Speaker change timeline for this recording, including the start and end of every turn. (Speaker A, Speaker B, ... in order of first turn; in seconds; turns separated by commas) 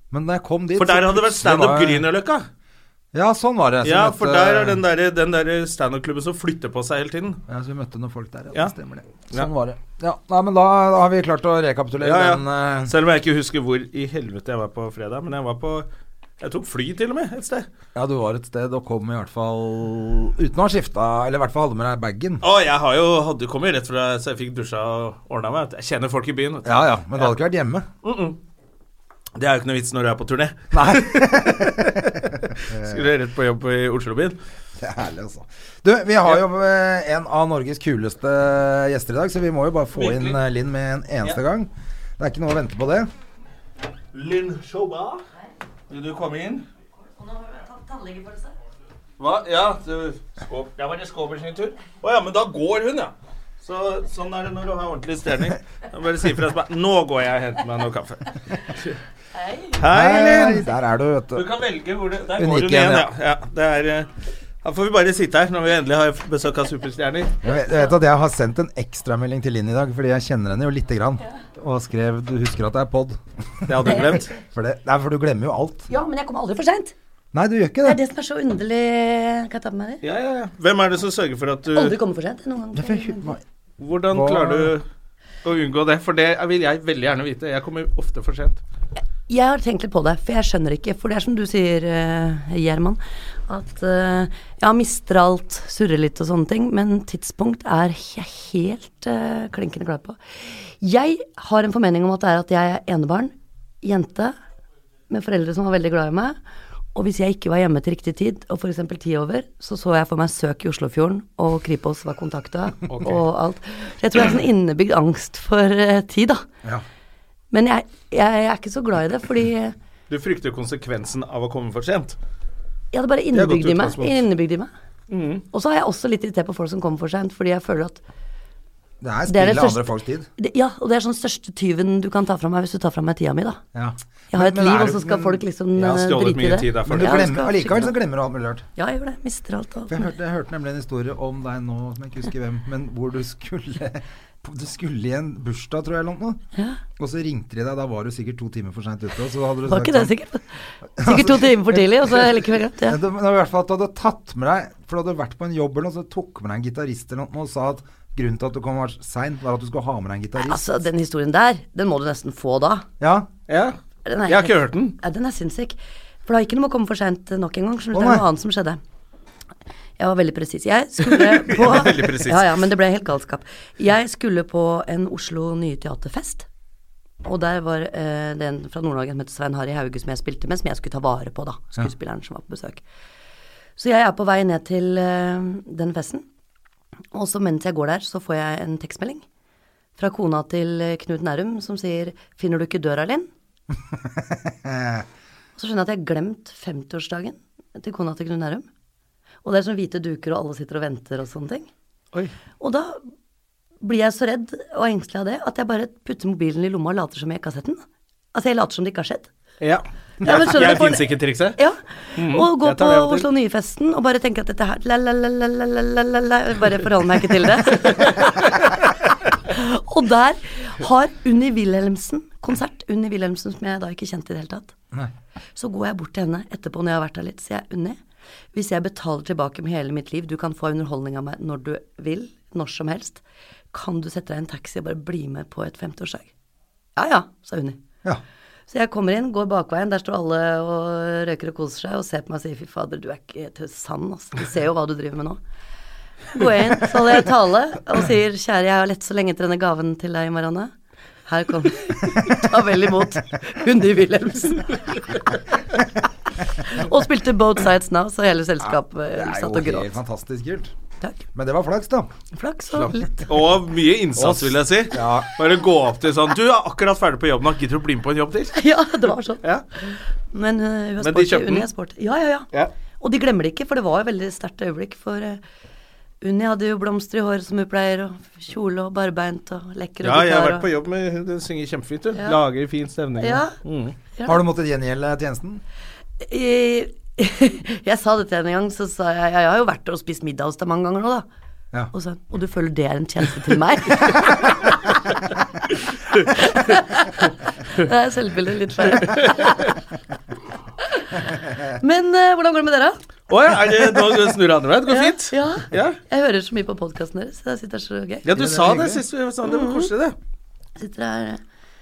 Speaker A: 0.1-2.0, Speaker B: 0.8-2.5, Speaker A: 3.1-4.8, Speaker B: 3.8-7.4, Speaker A: 7.5-12.9, Speaker B: 12.0-15.9, Speaker B: 16.4-17.7, Speaker A: 17.9-22.4, Speaker B: 22.4-27.3, Speaker A: 26.6-27.9, Speaker B: 28.0-28.4, Speaker B: 29.4-34.4, Speaker A: 30.7-33.1, Speaker A: 34.8-43.1, Speaker B: 39.9-40.4, Speaker B: 44.1-45.2, Speaker B: 45.9-46.6, Speaker C: 47.0-48.5, Speaker B: 49.2-59.0, Speaker B: 59.7-60.6, Speaker A: 59.9-61.5, Speaker B: 61.3-64.1, Speaker A: 62.4-63.1, Speaker B: 64.6-67.4, Speaker A: 67.4-75.9, Speaker B: 73.7-74.3, Speaker C: 75.9-76.9, Speaker A: 77.3-78.0, Speaker C: 77.8-80.0, Speaker B: 80.0-82.0, Speaker C: 81.7-83.3, Speaker A: 82.8-83.4, Speaker B: 83.8-84.8, Speaker A: 84.1-84.7, Speaker B: 85.4-88.6, Speaker C: 89.3-104.3, Speaker C: 105.1-106.4, Speaker C: 106.9-116.5, Speaker B: 112.9-113.2, Speaker C: 117.5-119.7, Speaker B: 120.1-122.2, Speaker C: 122.9-124.7, Speaker B: 123.3-124.2, Speaker B: 125.1-125.4, Speaker C: 125.5-128.0, Speaker A: 129.0-130.3, Speaker C: 129.3-133.6, Speaker A: 133.7-135.4, Speaker C: 134.3-137.9, Speaker B: 135.8-137.3, Speaker A: 136.9-138.6, Speaker C: 138.8-140.1, Speaker A: 139.9-146.4, Speaker C: 146.5-146.8, Speaker A: 147.0-150.1, Speaker C: 149.7-150.4, Speaker A: 151.0-160.8, Speaker C: 151.0-153.0, Speaker C: 160.4-162.8, Speaker A: 163.0-163.3, Speaker B: 163.5-164.9, Speaker C: 164.0-168.8, Speaker A: 167.9-168.2, Speaker C: 170.0-176.4, Speaker B: 171.0-172.4, Speaker C: 177.2-182.8, Speaker C: 183.8-186.2, Speaker C: 187.1-189.2, Speaker C: 190.0-193.3, Speaker A: 193.9-195.0, Speaker C: 195.6-198.7, Speaker C: 199.4-201.7, Speaker C: 202.6-203.0, Speaker C: 203.8-209.3, Speaker B: 209.6-211.6, Speaker C: 210.2-224.7, Speaker B: 212.2-213.3, Speaker B: 217.8-218.7, Speaker C: 225.6-228.0, Speaker C: 228.5-233.2, Speaker C: 233.7-236.3, Speaker C: 236.9-237.8, Speaker C: 238.7-245.4, Speaker C: 246.3-250.7, Speaker C: 251.3-255.2, Speaker C: 256.6-259.9, Speaker A: 258.6-260.7, Speaker A: 261.3-262.1, Speaker C: 262.3-263.3, Speaker B: 262.7-268.6, Speaker A: 264.2-265.3, Speaker C: 268.5-275.4, Speaker B: 271.0-271.7, Speaker C: 276.2-280.7, Speaker B: 280.0-283.9, Speaker C: 283.2-283.5, Speaker C: 284.1-284.4, Speaker A: 284.2-285.6, Speaker C: 286.2-291.2, Speaker C: 291.9-294.9, Speaker C: 296.2-299.7, Speaker B: 298.9-299.7, Speaker C: 300.8-303.0, Speaker B: 303.3-306.0, Speaker C: 304.9-308.2, Speaker B: 308.2-310.1, Speaker A: 308.3-309.0, Speaker C: 309.4-309.9, Speaker C: 310.8-311.4